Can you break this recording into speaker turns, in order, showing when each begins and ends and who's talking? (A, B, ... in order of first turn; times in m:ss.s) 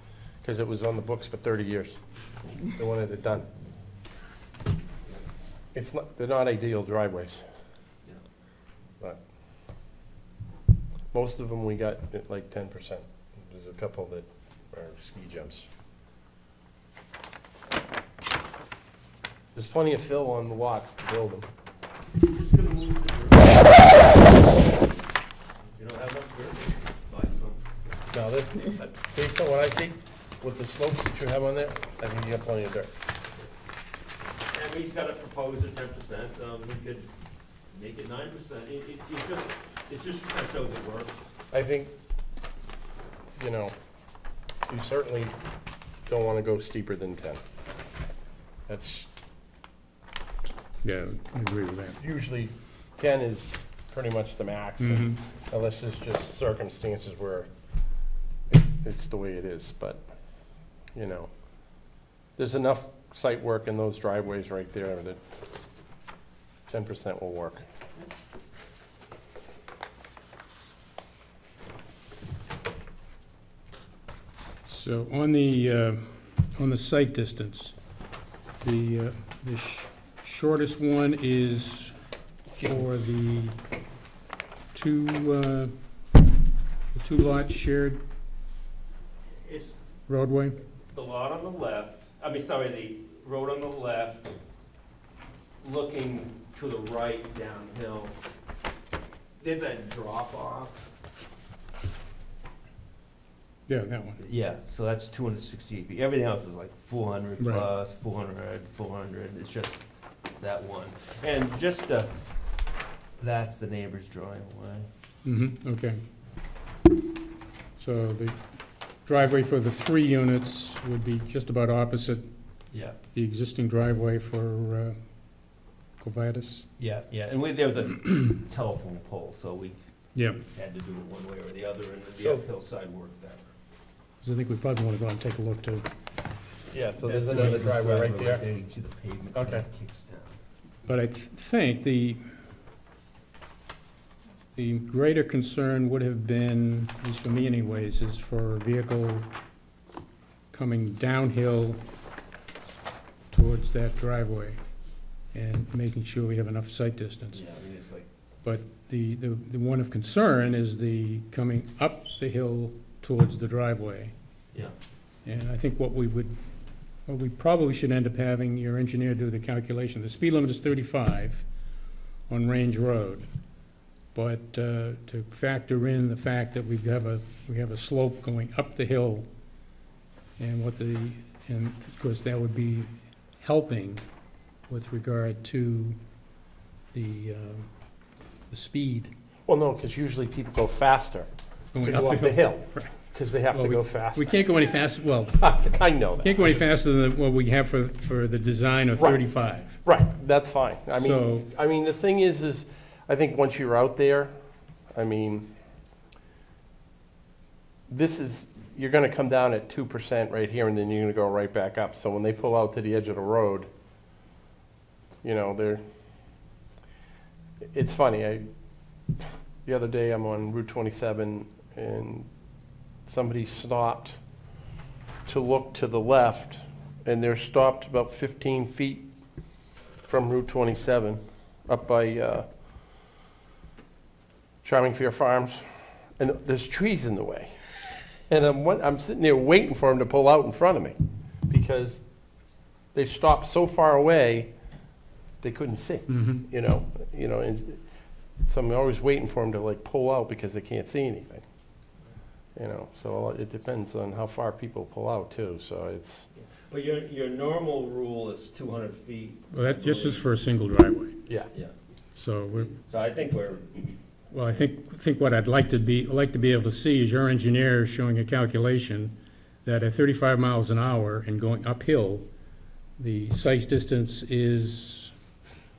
0:00.4-0:03.5 A
0:05.7-0:07.7 A
0:11.1-0:15.7 A
0:19.5-0:21.5 A
0:22.2-0:24.8 B
0:25.7-0:27.6 B
0:28.1-0:32.9 A
0:34.5-0:37.1 B
0:37.6-0:41.3 B
0:41.5-0:41.9 A
0:43.4-0:43.7 A
0:44.7-0:45.3 A
0:46.0-0:47.4 A
0:48.7-0:49.1 A
0:50.8-0:52.0 C
0:52.0-0:57.5 A
0:54.8-0:55.2 C
0:58.5-1:05.2 A
1:06.7-1:07.6 A
1:14.7-1:17.9 C
1:18.6-1:22.1 C
1:22.4-1:22.8 A
1:22.6-1:23.6 C
1:24.7-1:26.0 C
1:26.9-1:28.0 C
1:29.4-1:29.8 B
1:30.1-1:30.6 C
1:30.9-1:34.3 B
1:35.6-1:38.3 B
1:39.4-1:40.9 B
1:43.7-1:44.2 C
1:44.2-1:54.9 B
1:47.4-1:47.7 C
1:55.2-1:56.0 C
1:57.8-2:06.7 C
2:02.7-2:03.0 B
2:06.8-2:13.6 B
2:10.1-2:10.4 C
2:12.2-2:12.4 A
2:14.2-2:15.9 C
2:16.7-2:18.4 A
2:17.0-2:20.4 B
2:19.3-2:19.6 A
2:20.8-2:22.3 C
2:24.5-2:29.3 C
2:30.5-2:31.8 C
2:33.3-2:37.6 C
2:37.3-2:38.1 B
2:38.4-2:44.1 C
2:45.2-2:51.5 C
2:52.3-2:53.5 C
2:54.1-2:59.3 C
3:00.4-3:04.1 C
3:04.6-3:06.2 C
3:06.9-3:09.1 C
3:09.4-3:14.8 A
3:11.7-3:19.8 C
3:15.4-3:16.6 A
3:19.0-3:25.5 A
3:20.9-3:21.5 C
3:27.9-3:33.7 A
3:35.2-3:36.4 A
3:37.7-3:42.4 A
3:43.0-3:44.2 A
3:45.2-3:49.0 A
3:50.0-3:53.0 A
3:54.6-4:11.5 A
4:06.1-4:06.4 C
4:12.5-4:16.3 A
4:16.3-4:20.3 B
4:19.5-4:21.3 C
4:22.1-4:22.7 C
4:22.8-4:24.0 B
4:24.3-4:32.3 C
4:32.9-4:35.2 C